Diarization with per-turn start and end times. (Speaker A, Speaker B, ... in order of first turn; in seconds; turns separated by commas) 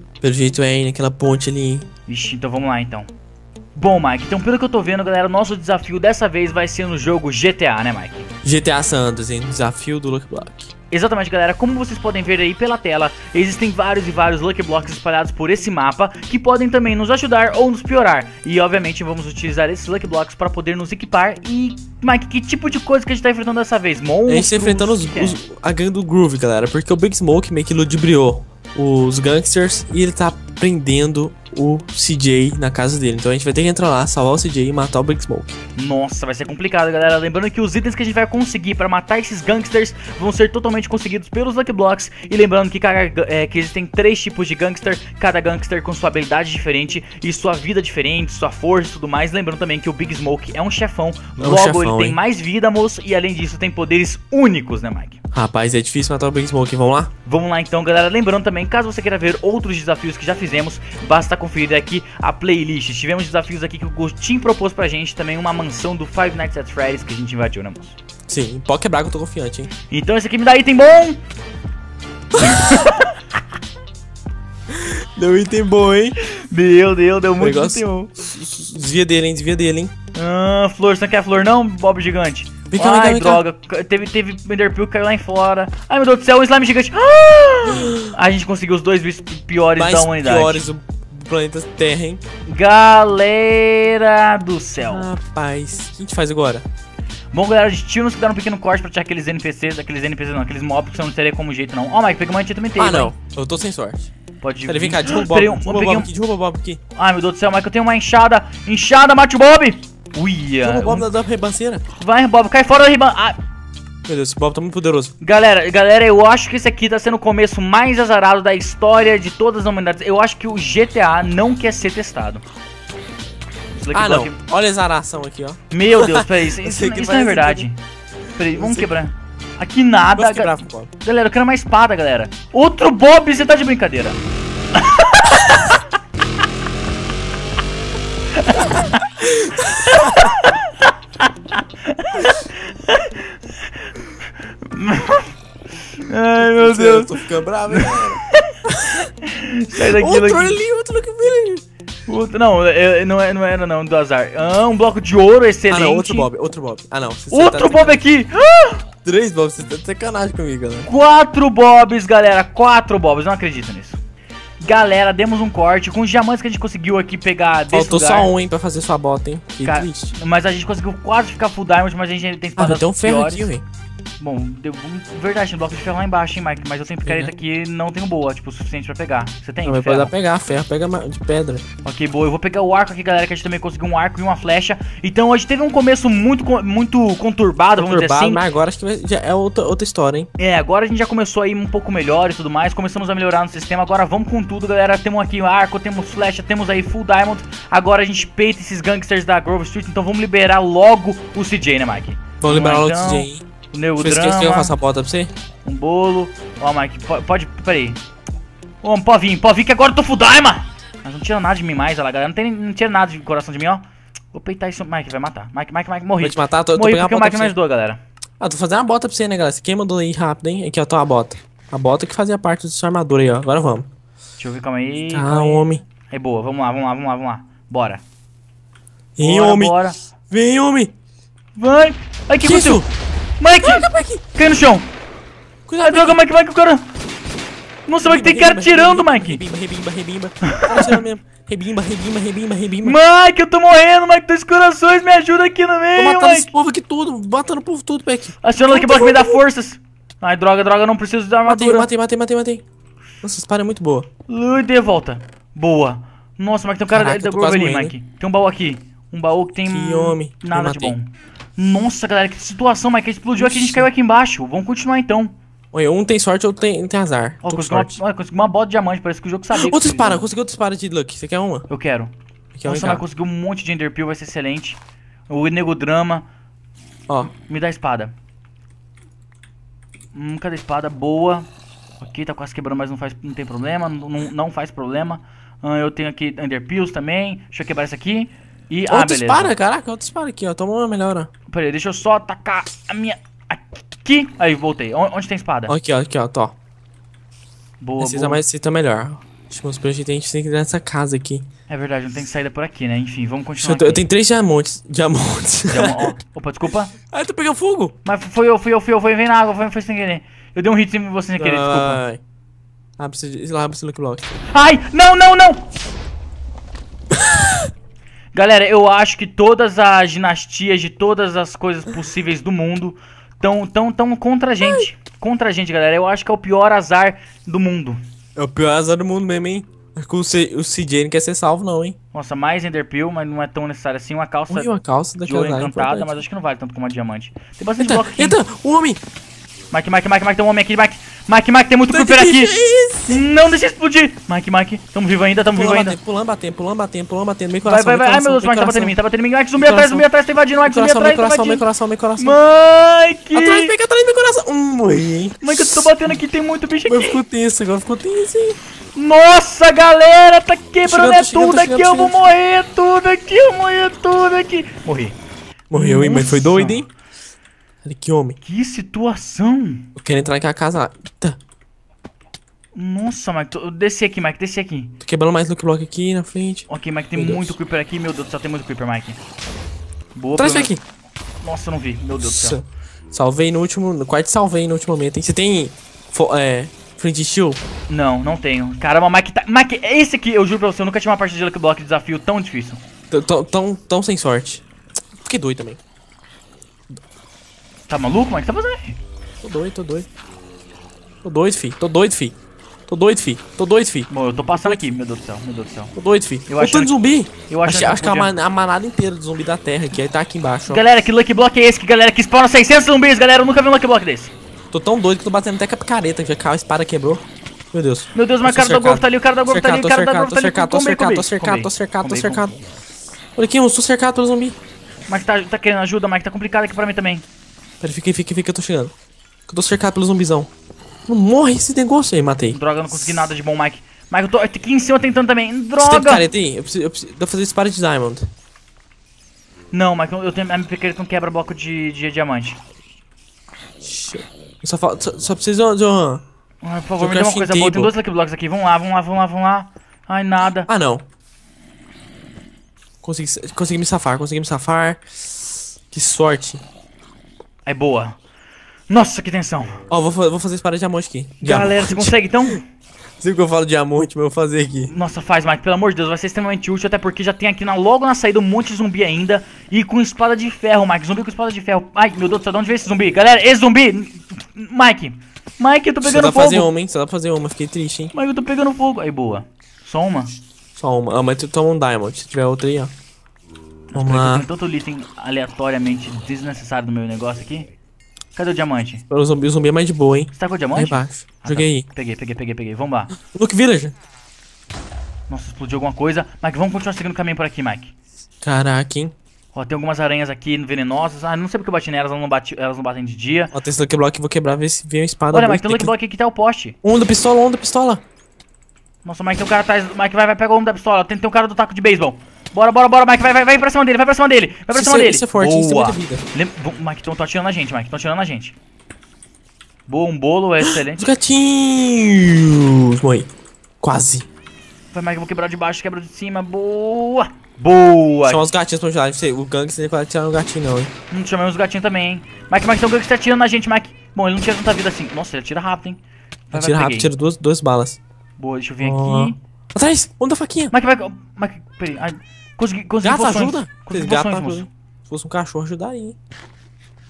Speaker A: 0.2-1.9, Speaker B: 2.1-3.1, Speaker B: 3.8-8.3, Speaker A: 8.4-10.7, Speaker B: 10.9-25.4, Speaker A: 24.3-35.6, Speaker B: 35.8-55.2, Speaker A: 51.4-52.2, Speaker A: 55.3-57.1, Speaker B: 57.3-68.0, Speaker A: 68.3-69.7, Speaker B: 69.9-71.2, Speaker A: 72.3-72.9, Speaker B: 72.4-73.2, Speaker A: 74.7-76.2, Speaker B: 76.2-78.1, Speaker A: 77.4-79.9, Speaker B: 80.2-90.7, Speaker A: 82.7-83.4, Speaker A: 87.7-88.2, Speaker A: 89.8-92.2, Speaker B: 92.5-95.1, Speaker A: 94.8-96.7, Speaker B: 97.3-103.1, Speaker A: 102.8-104.1, Speaker B: 104.4-106.1, Speaker A: 104.7-106.8, Speaker B: 107.0-111.1, Speaker A: 110.7-111.8, Speaker B: 112.0-113.4, Speaker A: 114.1-115.1, Speaker B: 115.2-122.4, Speaker B: 123.7-124.4, Speaker A: 123.9-127.7, Speaker B: 125.7-127.8, Speaker B: 128.4-134.2, Speaker A: 128.4-128.9, Speaker A: 130.2-130.9, Speaker B: 134.8-135.8, Speaker B: 138.3-139.2, Speaker A: 139.2-140.3, Speaker B: 139.8-145.3, Speaker B: 145.9-150.6, Speaker A: 146.4-149.1, Speaker A: 149.8-151.6, Speaker B: 152.1-156.3, Speaker A: 155.7-158.0, Speaker B: 157.3-158.8, Speaker A: 159.1-160.9, Speaker B: 160.9-164.0, Speaker B: 164.6-168.3, Speaker A: 167.7-170.1, Speaker B: 169.6-173.5, Speaker A: 172.6-173.6, Speaker B: 174.2-180.1, Speaker A: 177.1-177.3, Speaker A: 179.7-181.6, Speaker B: 181.8-188.4, Speaker A: 187.8-190.3, Speaker B: 190.4-204.8, Speaker A: 202.4-203.5, Speaker A: 204.0-205.3, Speaker B: 205.7-208.0, Speaker B: 208.8-218.0, Speaker A: 216.2-217.5, Speaker A: 218.4-223.9, Speaker B: 224.4-228.0, Speaker A: 225.1-225.8, Speaker A: 229.2-229.8, Speaker B: 229.2-230.0, Speaker A: 230.3-230.9, Speaker B: 231.6-232.9, Speaker A: 232.4-232.9, Speaker B: 233.4-234.9, Speaker A: 233.6-234.2, Speaker A: 235.7-236.2, Speaker B: 235.8-236.9, Speaker B: 237.9-239.4, Speaker A: 238.0-243.0, Speaker B: 240.5-241.0, Speaker B: 242.8-246.5, Speaker A: 246.0-249.4, Speaker B: 248.4-251.9, Speaker A: 251.5-252.6, Speaker A: 253.2-254.1, Speaker B: 254.3-265.3, Speaker A: 256.9-257.9, Speaker A: 259.6-260.9, Speaker A: 263.4-263.9, Speaker A: 265.7-268.0, Speaker B: 267.4-270.3, Speaker A: 269.5-271.7, Speaker B: 271.7-272.1, Speaker A: 272.5-273.0, Speaker B: 272.6-276.2, Speaker B: 277.4-278.1, Speaker B: 280.1-281.5, Speaker B: 282.0-289.5, Speaker A: 288.9-291.3, Speaker B: 291.5-295.8, Speaker A: 295.7-296.6, Speaker B: 297.8-298.4, Speaker A: 298.0-301.5, Speaker B: 301.7-304.0, Speaker A: 303.6-306.1, Speaker B: 305.7-306.9, Speaker A: 307.1-308.0, Speaker B: 308.1-312.0, Speaker A: 311.4-312.2, Speaker A: 313.0-314.3, Speaker B: 314.5-315.6, Speaker A: 317.1-317.7, Speaker B: 318.3-328.0, Speaker A: 328.4-332.0, Speaker B: 332.1-334.7, Speaker A: 334.5-336.2, Speaker B: 335.3-338.4, Speaker A: 337.8-339.0, Speaker B: 339.7-342.5, Speaker A: 341.9-343.2, Speaker B: 343.1-346.0, Speaker A: 345.5-349.0, Speaker B: 347.6-351.6, Speaker A: 349.6-350.1, Speaker A: 350.7-352.4, Speaker B: 352.2-353.7, Speaker A: 353.4-355.9, Speaker B: 355.4-357.2, Speaker A: 356.9-358.6, Speaker B: 358.9-365.2, Speaker A: 360.9-362.2, Speaker A: 365.7-366.9, Speaker B: 365.7-366.8, Speaker A: 367.8-368.4, Speaker B: 368.4-369.9, Speaker A: 370.0-371.4, Speaker B: 372.8-375.0, Speaker A: 375.0-377.6, Speaker B: 376.7-379.2, Speaker B: 380.1-380.7, Speaker A: 380.4-380.8, Speaker B: 381.4-382.6, Speaker A: 382.2-387.6, Speaker B: 387.9-392.8, Speaker A: 393.1-394.6, Speaker A: 395.2-395.8, Speaker B: 397.9-399.0, Speaker A: 399.4-400.1, Speaker A: 401.2-402.4, Speaker A: 402.9-404.8, Speaker B: 404.1-405.9, Speaker A: 405.9-410.8, Speaker B: 406.5-406.9, Speaker B: 407.5-408.3, Speaker B: 410.7-414.3, Speaker A: 414.7-422.6, Speaker B: 418.1-422.5, Speaker A: 423.4-424.6, Speaker B: 425.1-427.2, Speaker A: 427.8-428.9, Speaker A: 429.5-430.5, Speaker A: 431.1-432.6, Speaker B: 432.5-436.3, Speaker A: 435.8-438.3, Speaker B: 439.7-442.6, Speaker A: 443.8-446.2, Speaker B: 446.6-450.7, Speaker A: 447.0-447.9, Speaker A: 450.7-451.1, Speaker A: 453.0-456.6, Speaker B: 457.7-458.2, Speaker B: 458.9-459.8, Speaker A: 459.9-462.2, Speaker B: 461.4-462.6, Speaker A: 463.2-464.9, Speaker B: 464.9-476.7, Speaker A: 476.0-478.1, Speaker B: 478.1-480.4, Speaker A: 480.8-482.9, Speaker B: 483.9-487.7, Speaker A: 483.9-484.5, Speaker B: 488.4-489.1, Speaker A: 489.1-491.9, Speaker B: 490.3-493.1, Speaker A: 493.2-493.9, Speaker B: 495.3-497.9, Speaker A: 498.4-499.1, Speaker B: 499.5-503.5, Speaker A: 503.5-505.9, Speaker B: 505.3-506.8, Speaker A: 506.8-508.0, Speaker B: 509.0-518.6, Speaker A: 514.7-516.2, Speaker B: 519.9-521.0, Speaker A: 520.6-523.3, Speaker A: 523.8-524.3, Speaker B: 524.9-528.4, Speaker A: 528.2-530.9, Speaker B: 531.1-536.0, Speaker B: 536.5-537.1, Speaker A: 536.5-538.0, Speaker B: 538.4-539.4, Speaker A: 538.8-540.7, Speaker B: 540.7-544.7, Speaker A: 543.0-546.2